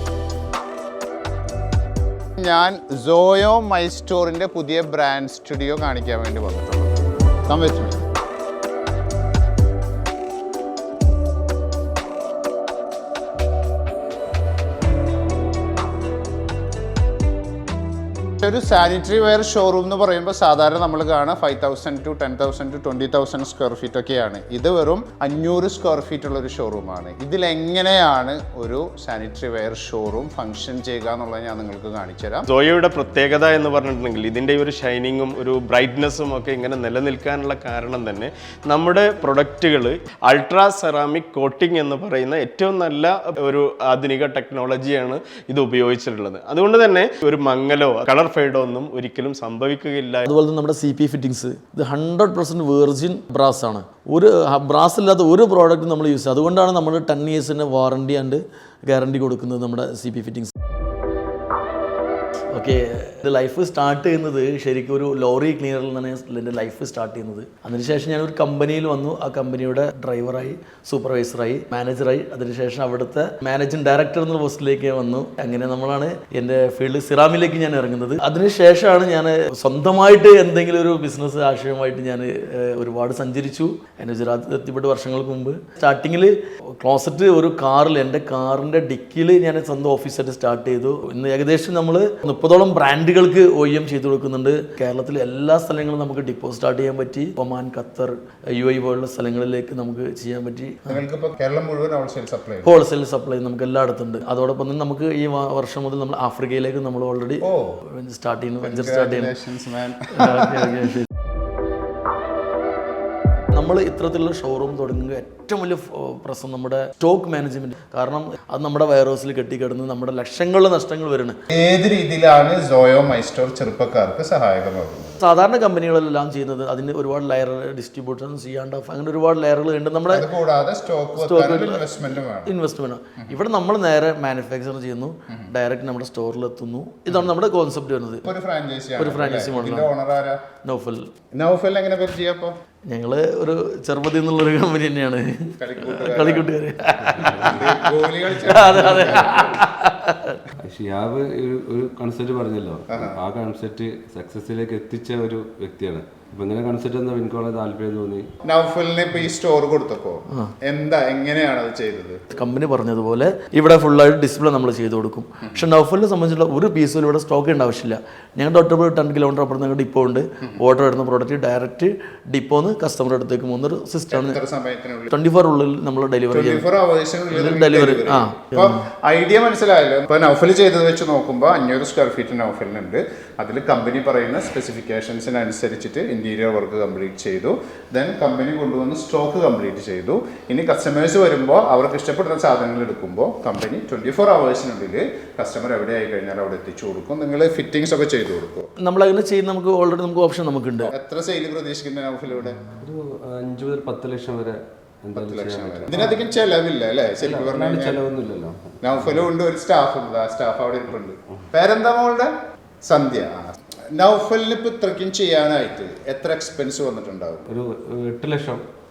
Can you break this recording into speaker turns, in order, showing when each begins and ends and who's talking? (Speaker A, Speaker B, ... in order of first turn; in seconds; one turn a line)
Speaker A: 2.4-8.0
Speaker A: 18.4-32.5
Speaker B: 32.5-50.3
Speaker C: 50.3-60.5
Speaker C: 62.5-101.0
Speaker A: 100.9-102.8
Speaker C: 102.6-109.3
Speaker A: 107.4-107.8
Speaker A: 108.6-110.9
Speaker C: 110.1-111.1
Speaker C: 113.5-121.4
Speaker A: 121.5-125.2
Speaker C: 125.2-130.3
Speaker A: 130.1-132.5
Speaker C: 131.1-138.3
Speaker A: 138.2-140.4
Speaker C: 139.0-139.9
Speaker C: 140.6-141.1
Speaker A: 141.3-142.6
Speaker C: 142.9-150.4
Speaker A: 145.6-146.5
Speaker A: 147.3-149.6
Speaker D: 150.6-158.3
Speaker A: 152.9-153.2
Speaker A: 158.4-162.2
Speaker C: 162.3-174.4
Speaker A: 174.1-175.1
Speaker C: 175.1-176.7
Speaker A: 176.3-198.7
Speaker C: 177.3-178.8
Speaker C: 198.8-200.9
Speaker A: 200.8-202.7
Speaker D: 202.8-206.2
Speaker A: 205.2-208.0
Speaker D: 207.2-209.3
Speaker A: 208.8-212.3
Speaker A: 212.9-217.5
Speaker D: 217.5-218.7